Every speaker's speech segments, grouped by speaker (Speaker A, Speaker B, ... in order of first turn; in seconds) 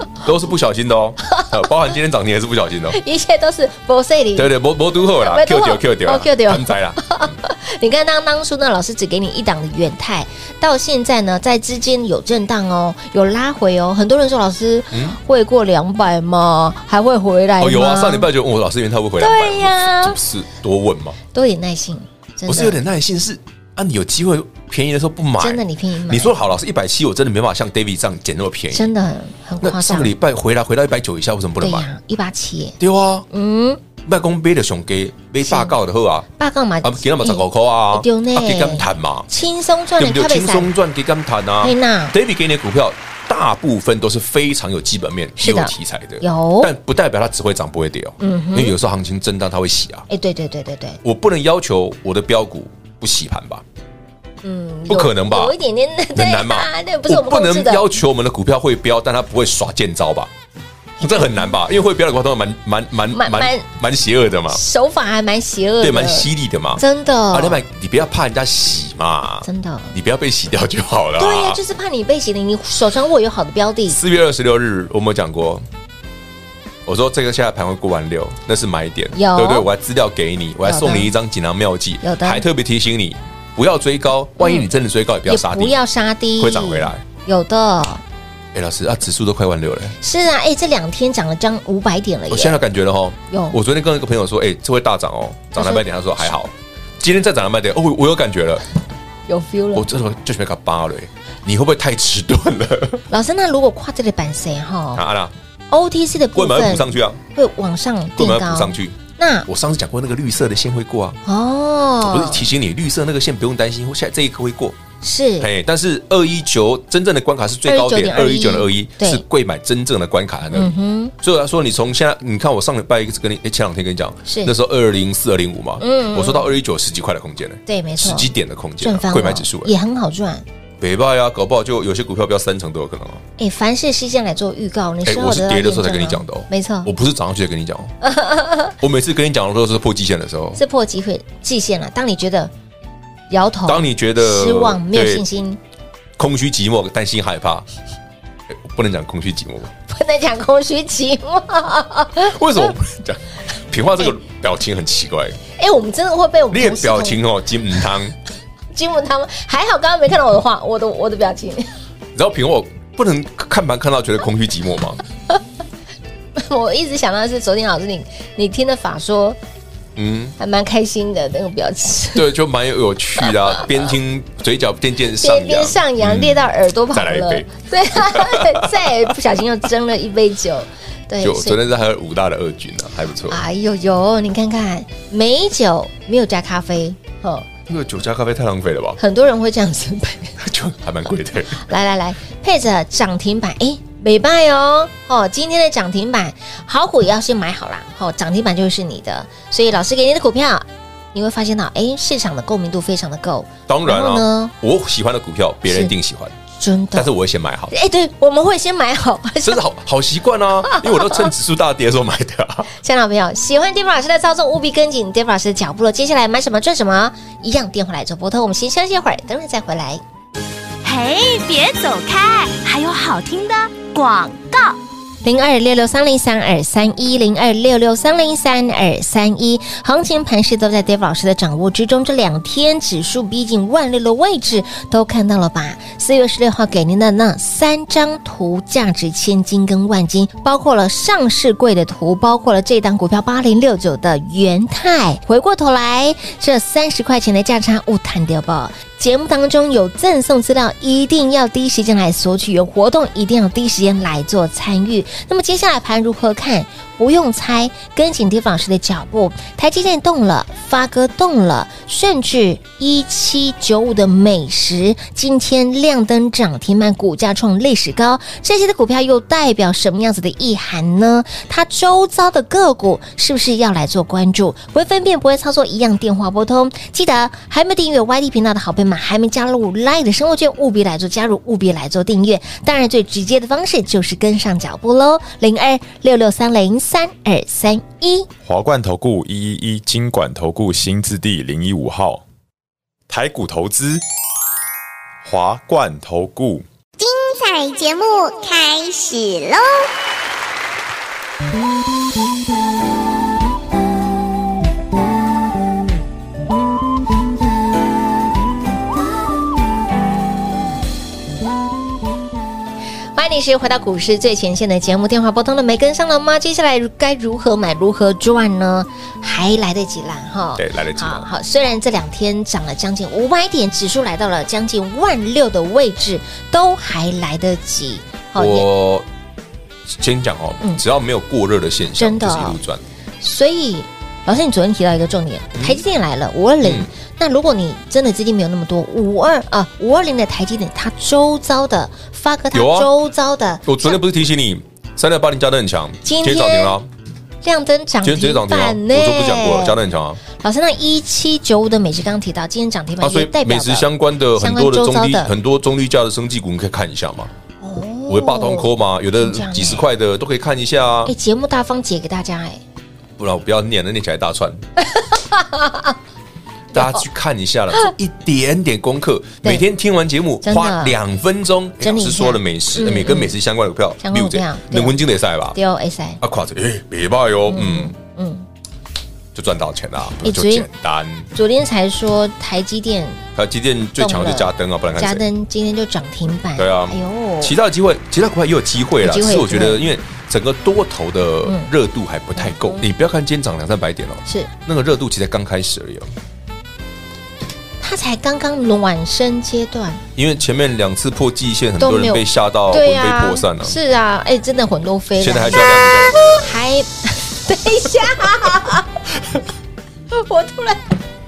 Speaker A: 0.2-3.0, 4.3-7.3, 14.9-15.2, 17.6-21.2, 22.5-28.9, 29.6-31.9, 32.8-33.3, 34.0-36.3, 36.8-39.3, 40.0-50.1, 51.0-53.6, 54.9-55.6, 56.1-60.3, 61.0-64.6, 65.8-71.6, 73.9-75.7, 76.8-85.8, 86.4-87.0, 88.5-90.0, 92.3-98.6, 99.7-103.0, 104.9-105.3, 106.3-107.2, 108.2-111.2, 112.0-114.8, 115.4-129.7, 130.8-133.2, 135.1-137.9, 138.8-140.6, 143.7-145.2, 146.2-147.7, 148.5-149.7, 152.2-155.4, 156.5-158.2, 162.2-165.0, 170.0-170.4, 172.1-179.2, 181.2-183.4, 187.7-189.0, 190.4-191.7, 203.7-206.4, 206.9-207.7, 209.4-212.7, 320.6-321.3, 328.4-329.1, 329.9-332.8, 335.6-335.8, 336.6-336.9, 342.5-342.9, 343.6-346.9, 348.0-350.2, 353.0-357.3, 358.1-361.1, 363.2-364.6, 366.7-375.6, 376.2-377.9, 379.3-381.3, 383.4-385.2, 386.6-396.1, 400.2-403.8, 405.2-406.6
Speaker B: 2.9-4.5, 5.1-18.3, 19.2-20.2, 21.3-22.8, 25.4-26.3, 28.7-30.1, 31.6-32.8, 33.3-33.8, 35.4-35.8, 36.4-40.7, 41.6-42.1, 45.4-46.7, 48.2-48.8, 50.1-51.0, 54.4-57.9, 61.0-61.5, 63.1-63.7, 64.5-67.6, 69.4-70.0, 71.2-74.0, 79.1-79.7, 80.6-81.1, 82.0-82.4, 84.4-84.7, 85.3-88.0, 90.0-92.6, 93.3-93.6, 95.5-95.8, 99.3-99.9, 103.1-105.0, 105.7-109.5, 111.3-112.5, 115.0-115.5, 117.7-119.2, 120.5-121.1, 124.3-124.5, 125.8-126.5, 127.7-128.3, 128.8-130.4, 133.4-136.9, 138.0-138.8, 140.6-142.5, 143.3-145.6, 149.9-152.7, 155.6-157.2, 158.7-161.7, 166.4-169.4, 170.4-172.3, 173.3-173.6, 175.2-181.6, 183.3-187.5, 189.0-190.4, 191.6-204.5, 206.6-207.1, 207.7-209.6, 210.7-211.2, 212.8-220.0, 225.2-288.3, 313.1-328.7, 332.0-332.6, 333.2-344.0, 346.0-346.8, 347.4-349.8, 350.3-355.3, 357.6-359.9, 361.1-362.6, 364.9-365.9, 366.7-367.0, 370.4-371.0, 371.8-373.4, 374.0-375.0, 375.5-376.2, 377.5-378.5, 380.2-380.7, 381.3-383.2, 384.0-387.6, 389.0-389.8, 391.4-391.7, 392.4-392.9, 397.8-400.0, 401.8-408.9, 410.1-410.9
Speaker C: 220.8-224.8
Speaker D: 288.4-292.2, 293.1-294.0, 295.2-296.6
Speaker E: 297.0-299.9